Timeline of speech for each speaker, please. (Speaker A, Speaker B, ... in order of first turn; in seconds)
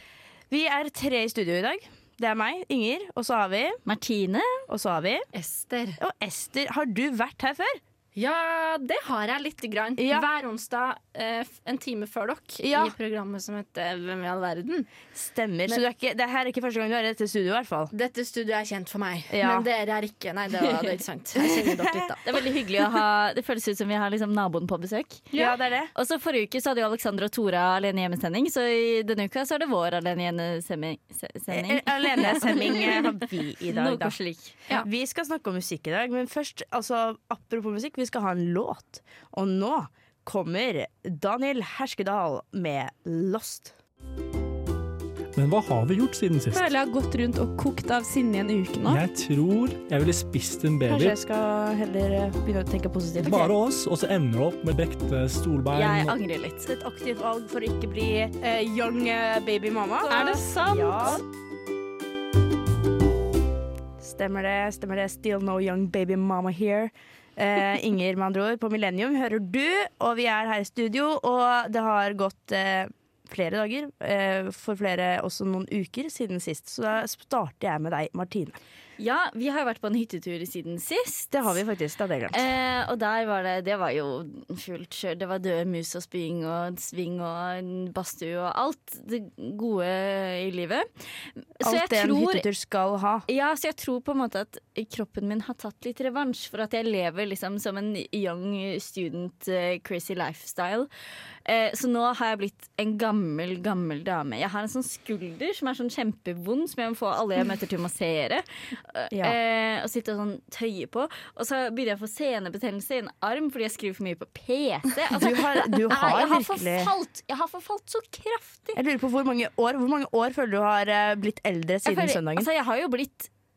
Speaker A: 0.5-3.8, 4.7-5.3, 6.0-7.8, 10.0-10.3, 12.6-12.9, 15.2-17.9, 19.3-19.7, 21.4-22.1, 25.3-25.9, 31.5-43.7, 50.9-53.5, 56.6-61.2, 64.0-78.6, 81.3-82.4, 91.6-93.3, 109.1-109.4, 115.2-116.9, 118.8-122.5
Speaker B: 3.9-4.7, 22.2-25.3, 25.9-34.6, 55.7-56.7, 79.0-81.3, 82.3-92.5, 93.3-100.9, 101.5-118.8, 121.9-123.3
Speaker C: 5.3-6.0, 8.2-14.9, 17.9-22.4
Speaker D: 45.4-46.6, 48.8-51.2, 53.2-56.2
Speaker E: 46.5-49.0